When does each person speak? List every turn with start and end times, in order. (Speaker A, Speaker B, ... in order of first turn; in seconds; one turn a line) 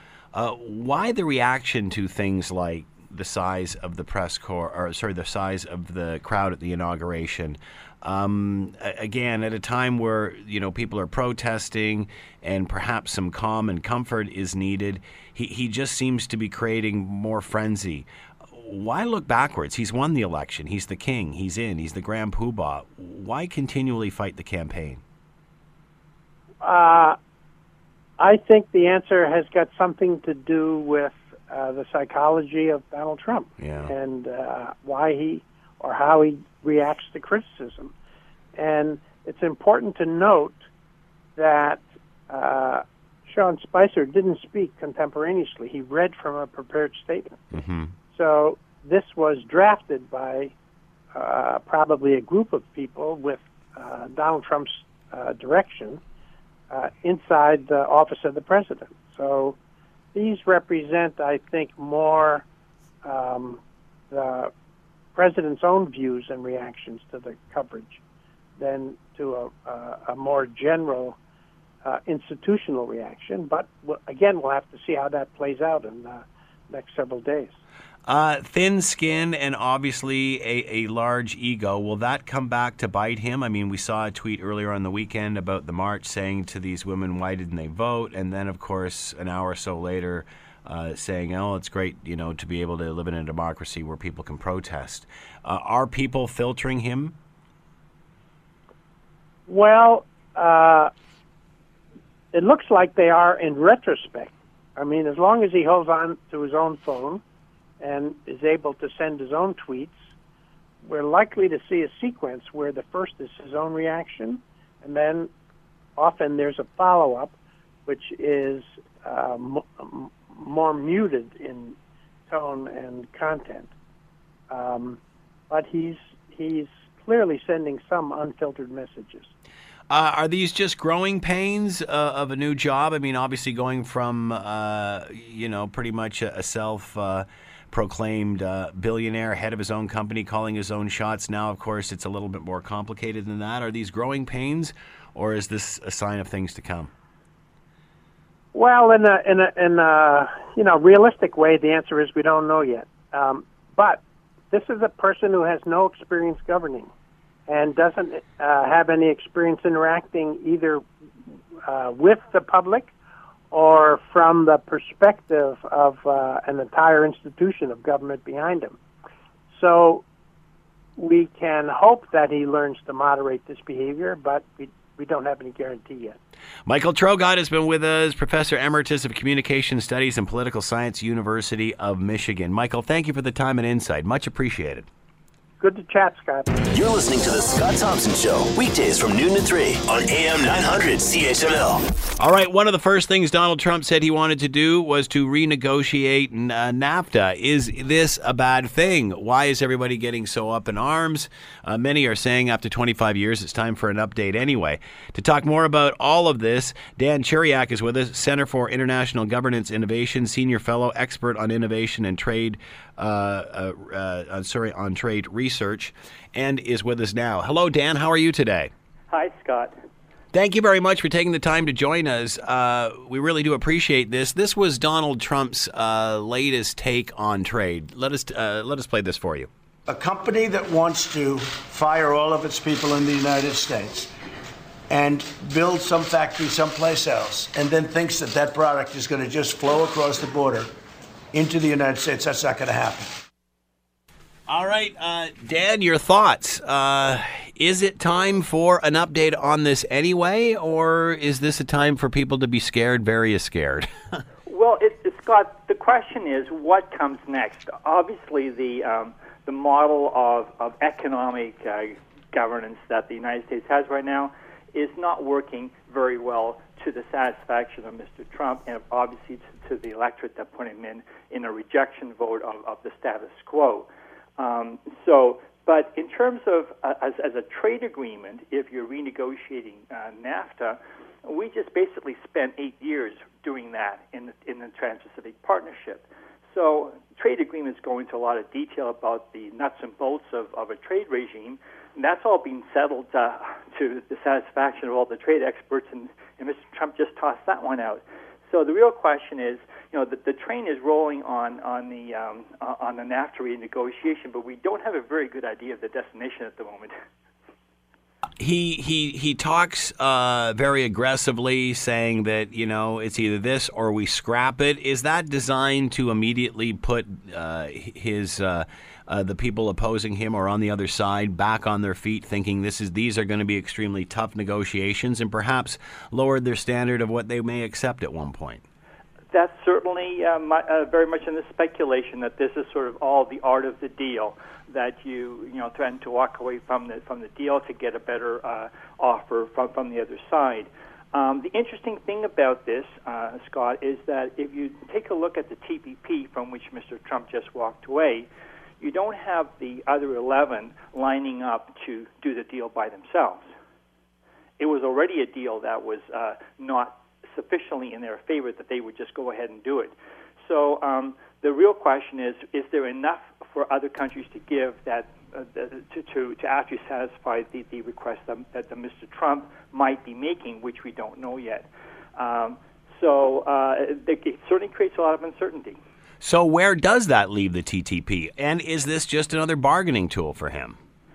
Speaker A: 0.3-25.0
Speaker B: 26.6-27.2
Speaker B: 28.2-37.9
Speaker A: 33.6-33.9
Speaker B: 38.6-40.6
Speaker B: 41.4-47.4
Speaker A: 47.5-47.9
Speaker B: 48.1-50.5
Speaker B: 51.1-56.0
Speaker B: 56.7-59.6
Speaker B: 60.1-62.5
Speaker B: 63.0-64.5
Speaker B: 65.2-68.0
Speaker B: 68.6-71.2
Speaker B: 71.8-77.5
Speaker A: 78.1-97.2
Speaker B: 99.5-100.9
Speaker B: 102.3-107.2
Speaker B: 107.8-110.0
Speaker B: 110.8-115.3
Speaker B: 116.0-117.3
Speaker B: 117.9-121.8
Speaker B: 122.3-123.7
Speaker B: 124.5-125.0
Speaker B: 125.5-129.3
Speaker A: 129.9-146.9
Speaker B: 148.5-156.9
Speaker B: 157.5-160.8
Speaker B: 161.7-162.9
Speaker B: 163.5-168.8
Speaker B: 169.5-170.1
Speaker B: 171.0-176.2
Speaker A: 176.7-184.9
Speaker B: 185.6-186.5
Speaker C: 186.7-191.8
Speaker A: 192.2-218.7
Speaker D: 219.1-219.7
Speaker A: 220.3-229.5
Speaker E: 229.9-234.1
Speaker E: 234.9-240.7
Speaker E: 241.3-243.2
Speaker A: 244.5-253.9
Speaker D: 254.5-306.9
Speaker A: 308.4-328.6
Speaker D: 329.3-348.3
Speaker D: 348.8-353.4
Speaker D: 354.6-375.8
Speaker A: 376.2-380.8